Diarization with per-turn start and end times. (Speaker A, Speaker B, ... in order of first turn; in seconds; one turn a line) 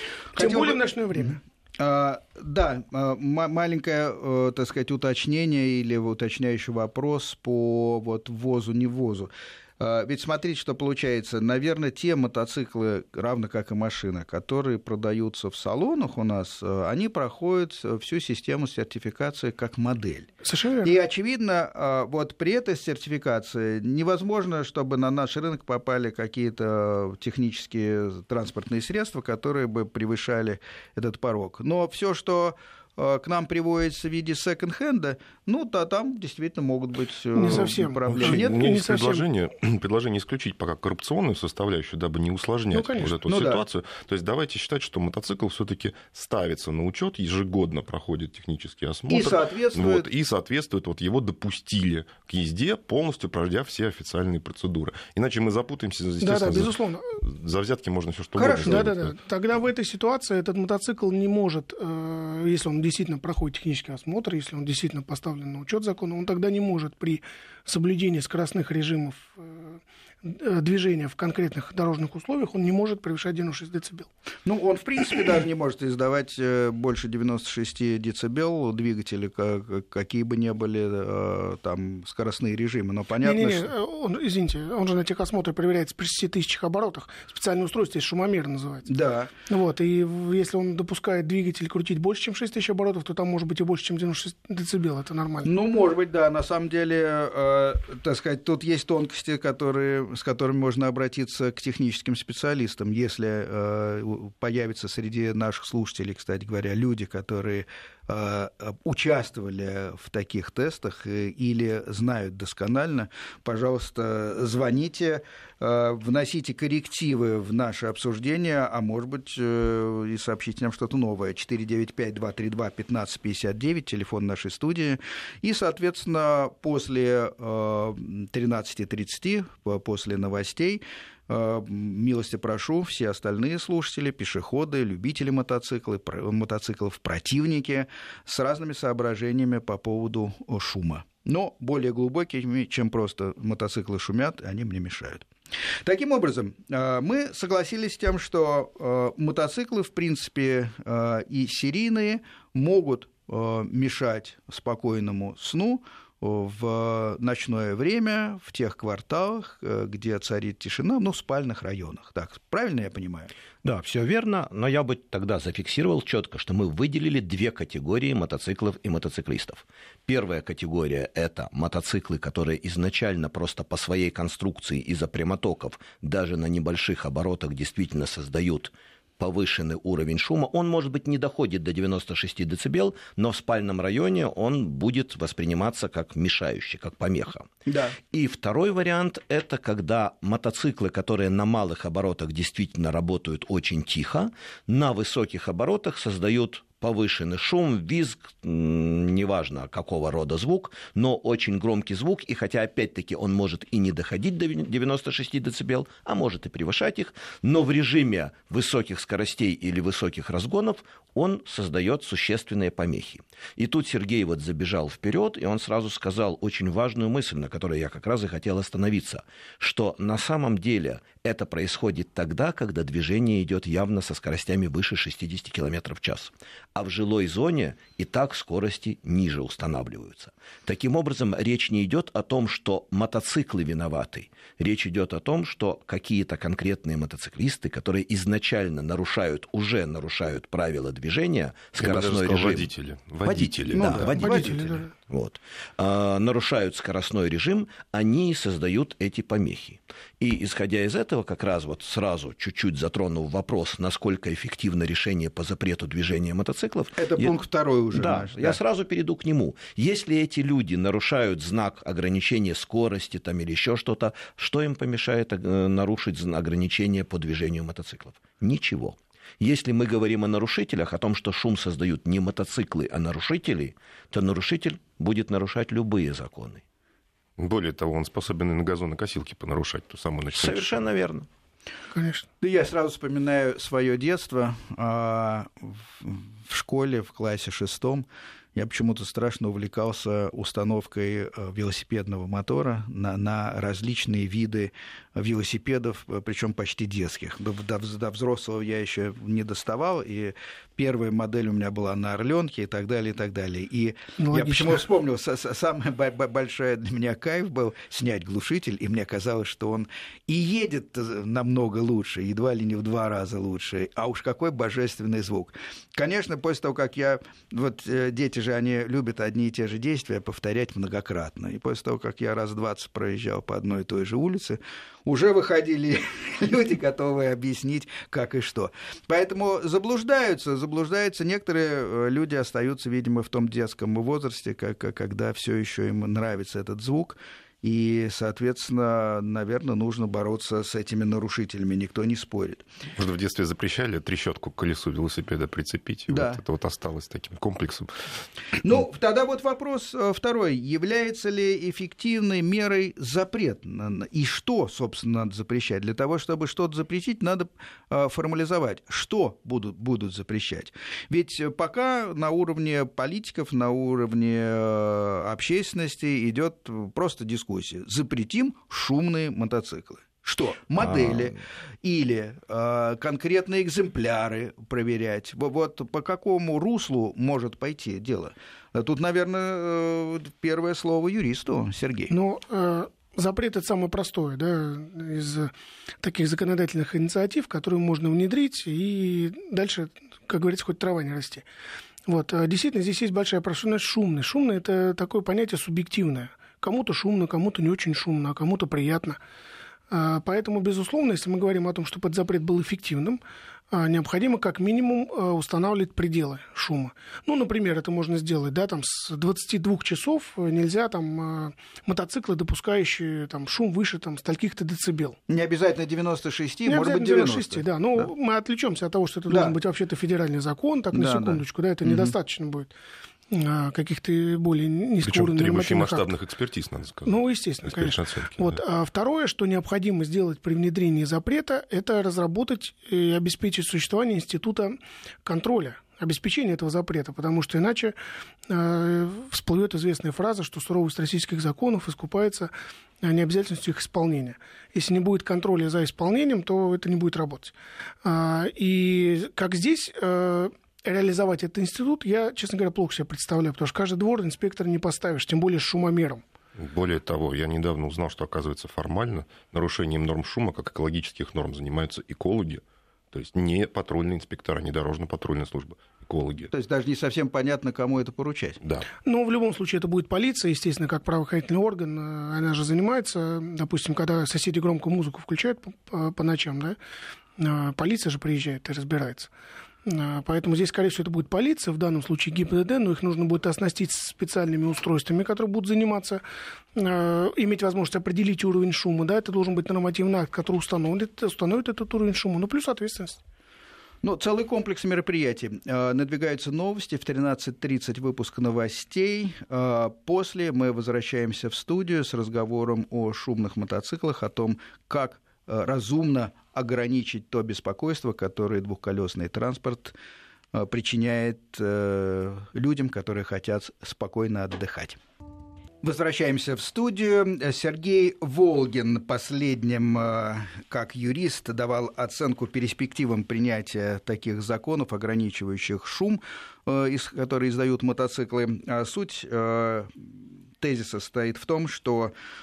Speaker A: 0.3-1.4
Speaker B: 0.3-20.3
Speaker A: 20.4-20.9
Speaker B: 20.8-38.6
Speaker A: 37.3-39.2
Speaker C: 37.5-59.2
Speaker A: 42.7-43.1
Speaker B: 43.3-43.6
Speaker B: 49.1-50.1
Speaker A: 56.2-57.2
Speaker B: 58.4-58.9
Speaker A: 58.6-74.1
Speaker B: 74.5-83.7
Speaker A: 83.2-88.9
Speaker B: 88.9-89.3
Speaker A: 89.5-95.5
Speaker B: 95.4-145.3
Speaker B: 145.8-163.3
Speaker D: 163.6-187.5
Speaker B: 187.7-188.0
Speaker D: 188.1-242.7
Speaker C: 241.8-244.1
Speaker D: 243.2-257.4
Speaker B: 243.7-244.8
Speaker A: 244.2-244.9
Speaker B: 257.0-258.6
Speaker D: 257.9-276.6
Speaker C: 277.4-280.9
Speaker D: 280.3-281.3
Speaker A: 281.9-282.3
Speaker B: 282.4-342.6
Speaker A: 304.2-304.8
Speaker C: 343.0-347.9
Speaker B: 346.1-346.4
Speaker B: 348.6-382.1
Speaker D: 370.8-371.4
Speaker A: 382.1-385.5
Speaker A: 386.0-391.4
Speaker A: 392.1-399.2
Speaker A: 399.9-403.2
Speaker A: 403.7-415.2
Speaker B: 415.3-418.1
Speaker A: 416.7-422.7
Speaker B: 419.3-419.6
Speaker B: 420.9-422.1
Speaker A: 423.3-426.1
Speaker C: 425.0-428.6
Speaker A: 427.1-437.9
Speaker A: 438.5-456.2
Speaker C: 456.6-466.5
Speaker B: 466.5-468.6
Speaker A: 469.1-476.8
Speaker A: 477.4-479.3
Speaker A: 479.9-486.2
Speaker A: 486.8-493.2
Speaker B: 494.0-510.0
Speaker B: 510.5-515.0
Speaker B: 515.8-532.1